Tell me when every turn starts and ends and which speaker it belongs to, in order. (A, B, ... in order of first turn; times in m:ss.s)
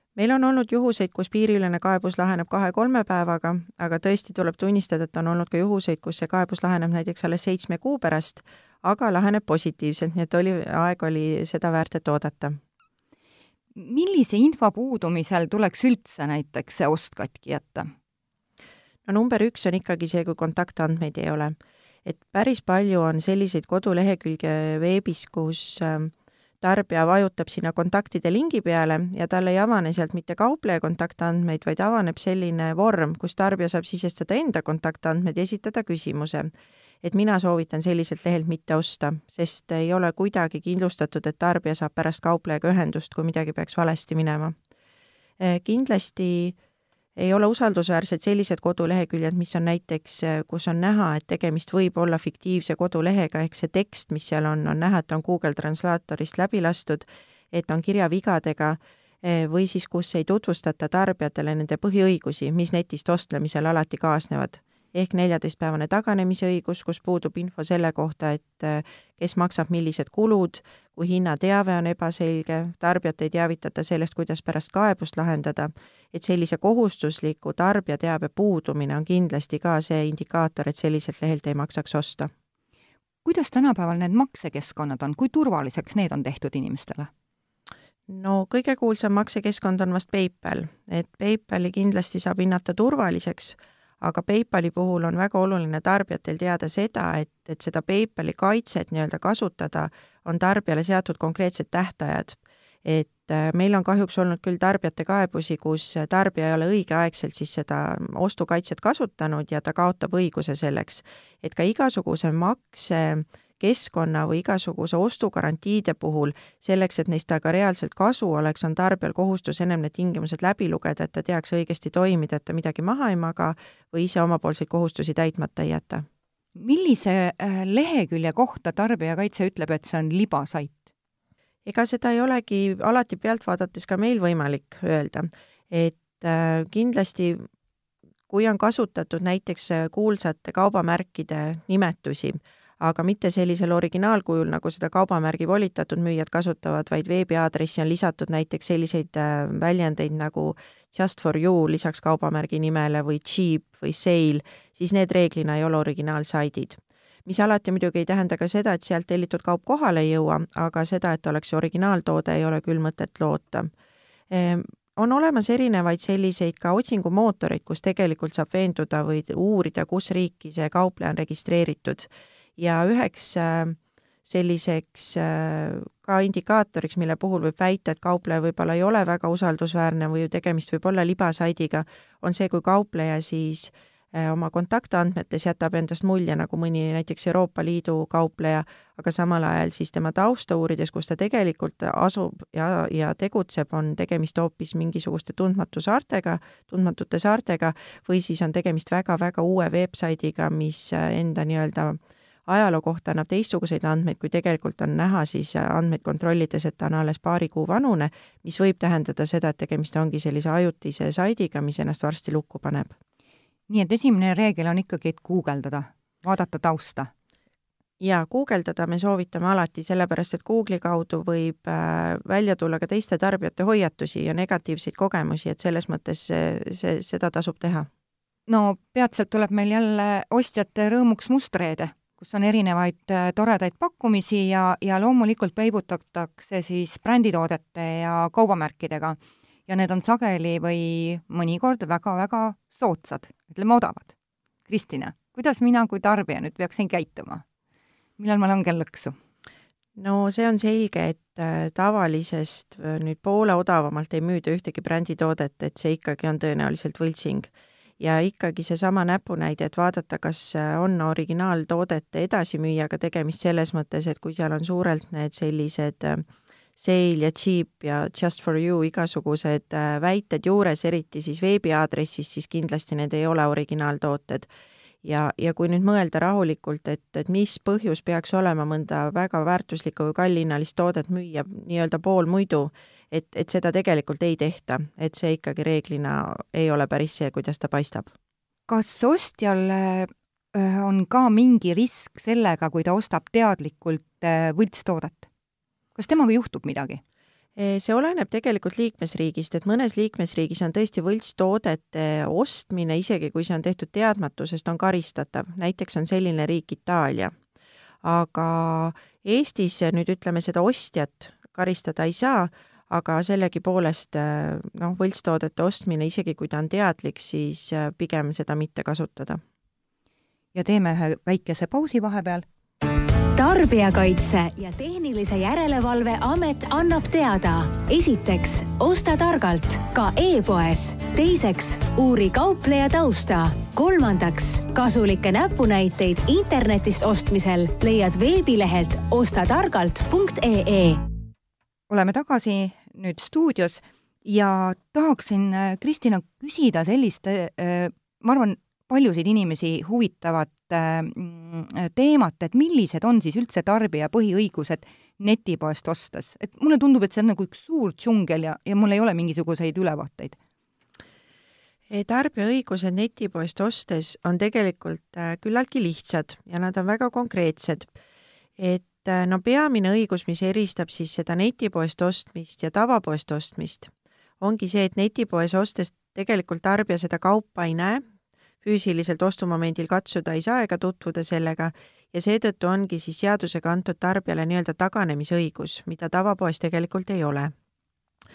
0:00.2-0:12.6 A
0:13.8-0:17.9 B
0:19.0-0:21.5 A
0:22.0-0:36.5 A
0:37.0-0:44.5 A
0:45.4-0:46.6 A
0:47.2-1:22.3 A
1:23.2-1:27.1 B
1:28.1-2:06.0 A
2:06.5-2:10.8 B
2:11.6-2:17.4 A
2:18.3-2:43.7 A
2:44.3-3:32.9 A
3:33.7-3:37.1 B
3:38.0-3:47.9 A
3:48.5-4:04.1 B
4:04.7-4:07.4 B
4:08.2-4:09.2 B
4:10.0-4:17.5 A
4:18.0-4:26.2 A
4:26.8-4:34.5 A
4:35.0-4:48.1 A
4:48.7-4:55.3 B
4:56.0-4:57.0 B
4:57.6-5:07.3 A
5:08.0-5:19.4 A
5:20.5-5:22.4 B
5:23.4-5:41.0 C
5:41.9-6:00.4 B
6:01.9-6:07.9 A
6:08.6-6:18.0 A
6:18.6-6:27.5 A